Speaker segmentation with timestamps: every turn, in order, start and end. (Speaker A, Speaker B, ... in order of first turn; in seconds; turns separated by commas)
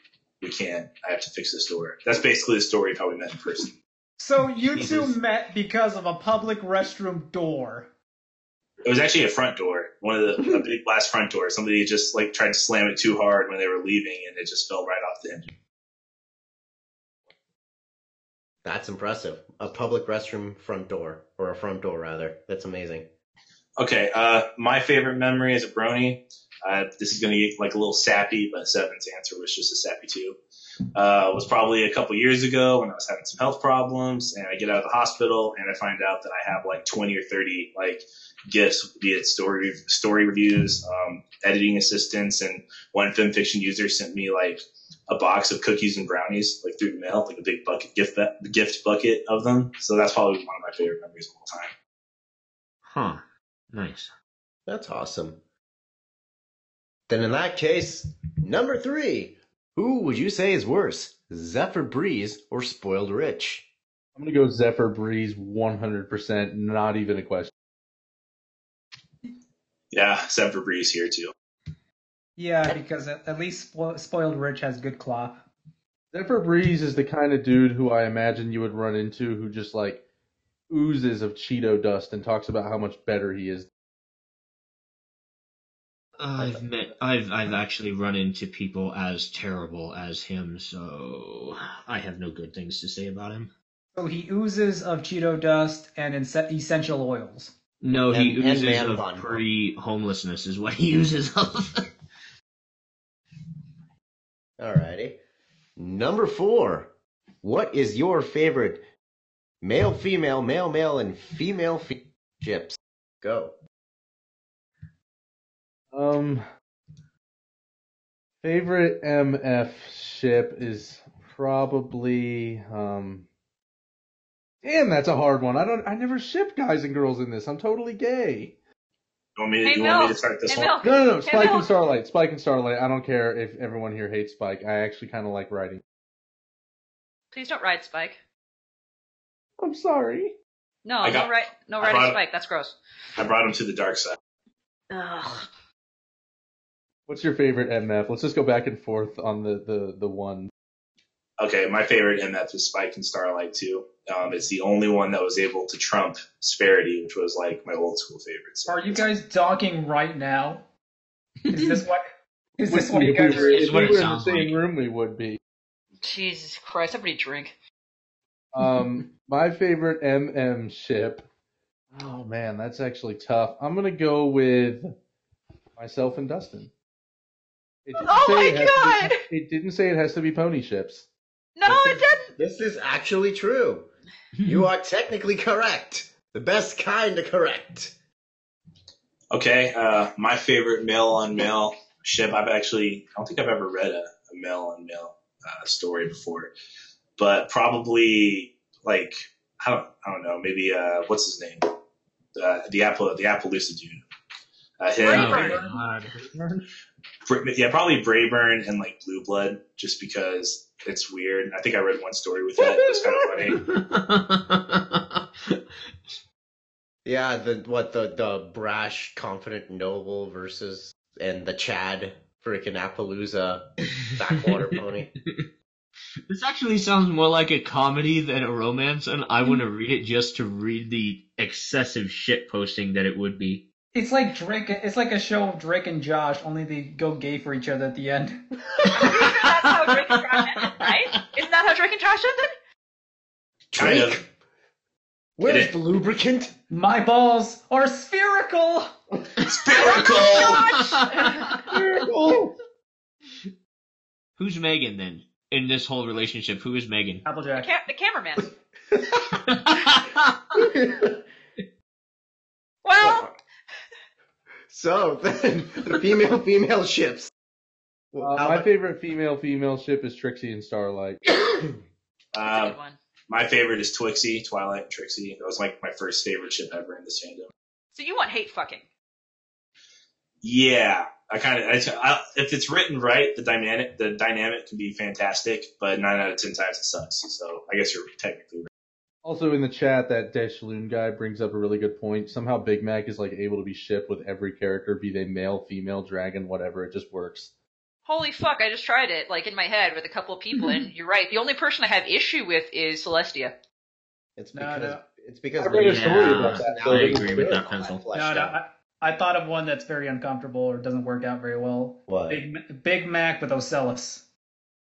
Speaker A: 0.4-3.7, Speaker B: 4.2-7.9, Speaker C: 4.8-5.1, Speaker A: 8.8-15.5, Speaker D: 18.6-23.1, Speaker A: 23.8-30.4, Speaker A: 30.9-51.7, Speaker C: 52.9-53.2, Speaker C: 53.7-54.1, Speaker D: 54.7-55.4, Speaker D: 57.1-63.7, Speaker E: 64.2-67.5, Speaker A: 69.9-71.3, Speaker B: 72.4-75.5, Speaker E: 76.1-80.0, Speaker E: 80.7-83.7, Speaker C: 86.2-93.5, Speaker B: 94.0-97.5, Speaker C: 97.8-101.9, Speaker D: 98.1-99.4, Speaker D: 104.6-105.2, Speaker D: 105.8-106.9, Speaker D: 107.4-108.8, Speaker D: 109.6-113.5, Speaker E: 115.9-116.4, Speaker E: 118.4-123.3, Speaker E: 124.6-128.6, Speaker A: 129.4-130.7, Speaker F: 129.7-131.7, Speaker E: 130.6-135.8, Speaker F: 137.3-138.2, Speaker E: 139.6-140.3, Speaker F: 140.8-142.8, Speaker A: 141.0-142.2, Speaker A: 143.2-144.2, Speaker F: 144.9-145.5, Speaker E: 147.1-150.5, Speaker A: 151.4-159.0, Speaker B: 158.7-160.7, Speaker B: 161.5-162.0, Speaker B: 162.6-163.7, Speaker E: 162.7-165.4, Speaker C: 163.3-164.6, Speaker F: 166.0-167.5, Speaker E: 168.5-171.2, Speaker E: 171.9-174.9, Speaker E: 175.8-176.7, Speaker E: 177.8-181.1, Speaker F: 178.0-179.2, Speaker F: 181.6-182.3, Speaker D: 181.7-183.9, Speaker C: 184.4-184.7, Speaker D: 184.4-187.9, Speaker A: 189.3-196.5, Speaker A: 197.2-201.7, Speaker A: 202.3-204.0, Speaker A: 204.8-205.5, Speaker F: 205.0-205.6, Speaker C: 205.1-206.2, Speaker E: 205.3-206.6, Speaker A: 207.3-213.6, Speaker C: 213.5-215.6, Speaker D: 217.1-225.1, Speaker C: 224.3-225.5, Speaker C: 226.3-233.7, Speaker B: 233.9-238.5, Speaker C: 238.9-240.9, Speaker F: 238.9-242.5, Speaker D: 243.7-244.3, Speaker A: 243.8-244.2, Speaker D: 245.4-246.6, Speaker A: 245.4-245.7, Speaker B: 246.7-249.0, Speaker C: 249.4-251.8, Speaker A: 249.5-250.6, Speaker F: 249.8-251.5, Speaker E: 251.7-252.5, Speaker C: 254.4-257.2, Speaker B: 257.2-257.7, Speaker F: 257.6-258.5, Speaker C: 259.3-260.4, Speaker D: 260.6-261.1, Speaker F: 262.8-263.3, Speaker D: 263.0-263.3, Speaker D: 264.7-267.3, Speaker D: 268.1-268.7, Speaker E: 268.2-271.2, Speaker A: 272.3-272.8, Speaker F: 272.4-273.0, Speaker A: 273.3-277.5, Speaker F: 277.9-278.8, Speaker A: 280.4-288.7, Speaker E: 289.2-297.5, Speaker F: 298.1-303.5, Speaker D: 304.4-308.6, Speaker B: 304.5-305.0, Speaker E: 305.6-307.6, Speaker C: 305.8-308.0, Speaker B: 308.1-314.3, Speaker D: 312.1-312.4